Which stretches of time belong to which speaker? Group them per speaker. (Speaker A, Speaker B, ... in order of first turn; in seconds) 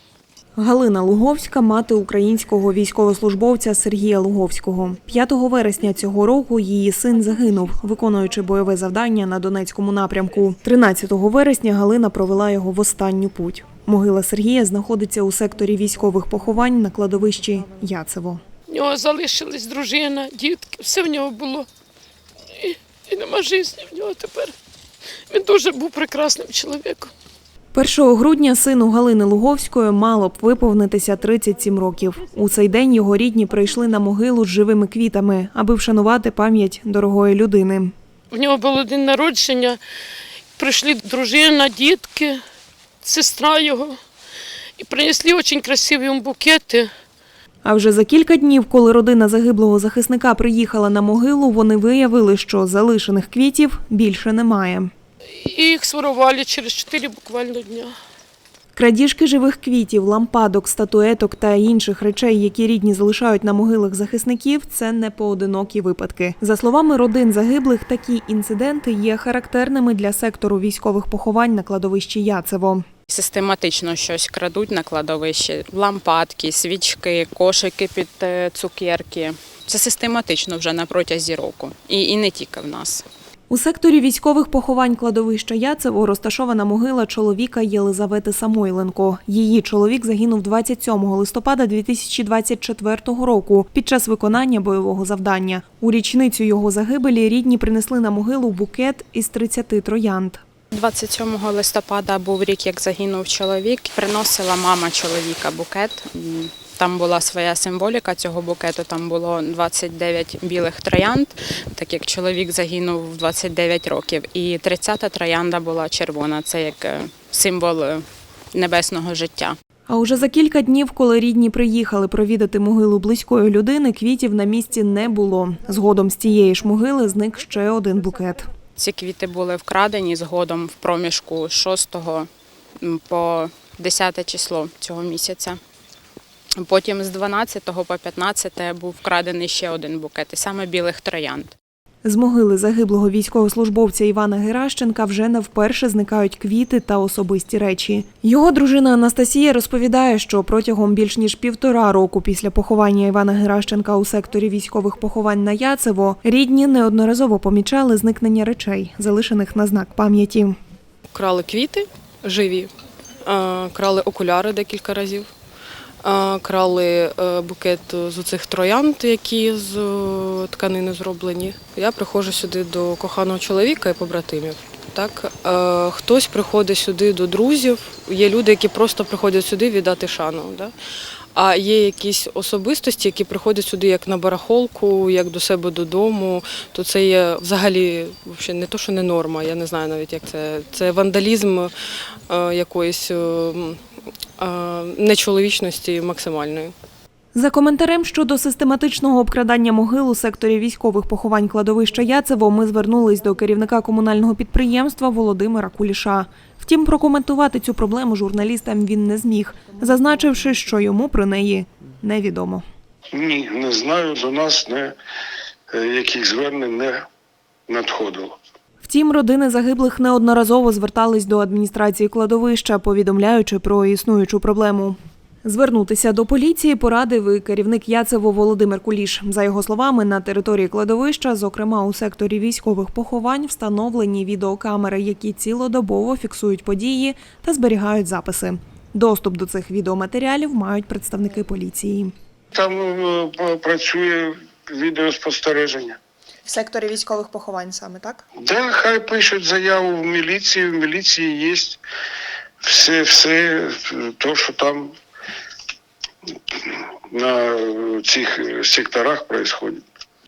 Speaker A: 0.6-18.4, 27.7-37.9, 47.6-54.9, 58.8-72.9, 83.5-100.4, 119.9-128.5, 142.0-160.6, 197.3-212.6, 218.8-242.1, 246.4-248.2
Speaker B: 18.7-21.7, 22.5-24.5, 25.3-27.1, 38.3-39.8, 40.6-42.4, 43.0-44.0, 44.8-46.9, 55.4-57.9
Speaker C: 73.1-83.1, 100.7-119.6, 128.8-132.3, 132.8-135.6, 136.6-141.6
Speaker D: 161.1-162.7, 163.2-165.3, 166.0-180.7, 181.3-191.7, 192.3-193.8, 194.4-196.7
Speaker E: 213.1-215.0, 215.7-217.1, 217.7-218.4, 242.5-246.0, 248.4-251.8, 252.6-254.9, 256.5-259.8